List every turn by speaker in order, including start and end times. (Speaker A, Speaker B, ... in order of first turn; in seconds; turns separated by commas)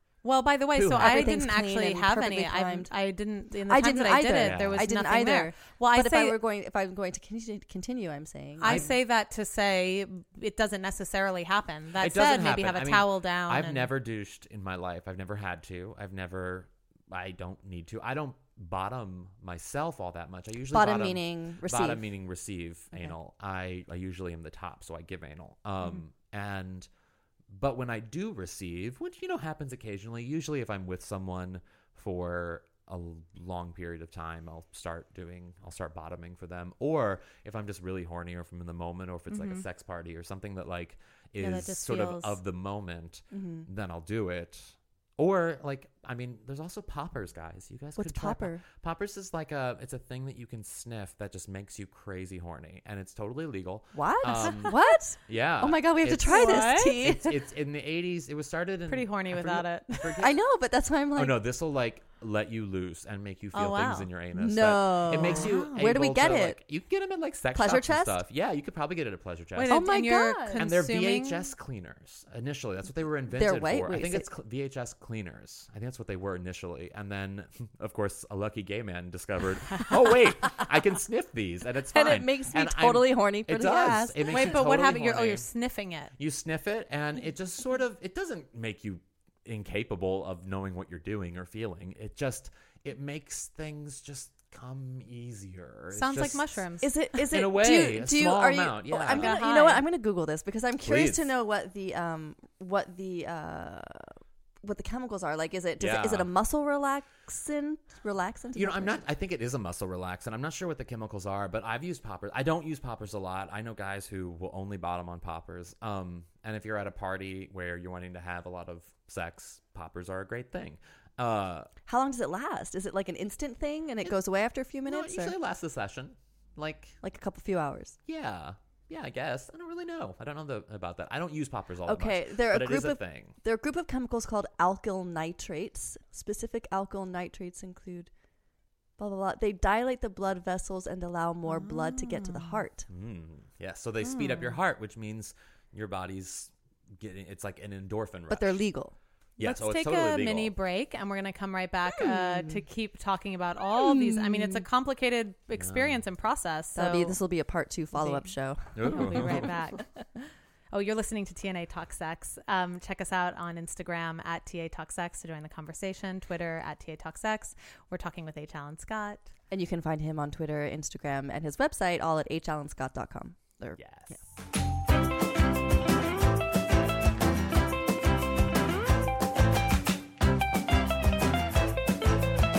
Speaker A: 0.2-6.4, Speaker B: 0.7-1.3, Speaker C: 0.9-2.9, Speaker C: 3.7-8.9, Speaker B: 4.4-4.9, Speaker A: 8.6-13.9, Speaker B: 8.6-8.9, Speaker B: 12.0-26.9, Speaker C: 20.7-22.0, Speaker B: 27.5-60.3, Speaker A: 39.3-39.6, Speaker A: 41.4-42.4, Speaker C: 43.3-43.7, Speaker C: 48.0-48.6, Speaker C: 53.9-57.4, Speaker A: 56.2-57.1, Speaker A: 58.9-60.2, Speaker C: 60.2-61.4, Speaker B: 61.1-69.9, Speaker A: 63.5-64.1, Speaker C: 64.3-66.6, Speaker A: 65.1-65.7, Speaker C: 67.5-68.2, Speaker A: 69.5-71.5, Speaker C: 69.7-70.7, Speaker B: 70.5-85.5, Speaker C: 73.3-74.3, Speaker C: 81.9-84.6, Speaker A: 84.2-86.1, Speaker B: 86.2-96.7, Speaker A: 95.9-96.9, Speaker C: 96.8-109.0, Speaker B: 97.2-99.4, Speaker A: 99.1-99.8, Speaker B: 100.8-101.3, Speaker B: 105.8-106.3, Speaker B: 108.5-121.7, Speaker C: 121.9-125.3, Speaker B: 124.8-127.0, Speaker C: 127.0-128.0, Speaker B: 128.1-133.3, Speaker C: 131.8-138.1, Speaker C: 139.0-142.9, Speaker A: 141.5-142.6, Speaker B: 142.9-148.6, Speaker A: 144.1-144.6, Speaker C: 148.3-148.9, Speaker B: 149.4-150.5, Speaker A: 149.4-157.2, Speaker C: 151.9-152.6, Speaker C: 153.7-154.6, Speaker B: 155.6-156.0, Speaker C: 156.7-159.5, Speaker A: 157.9-159.8, Speaker B: 158.7-159.5, Speaker A: 160.7-169.3, Speaker C: 169.5-174.2, Speaker B: 173.8-174.2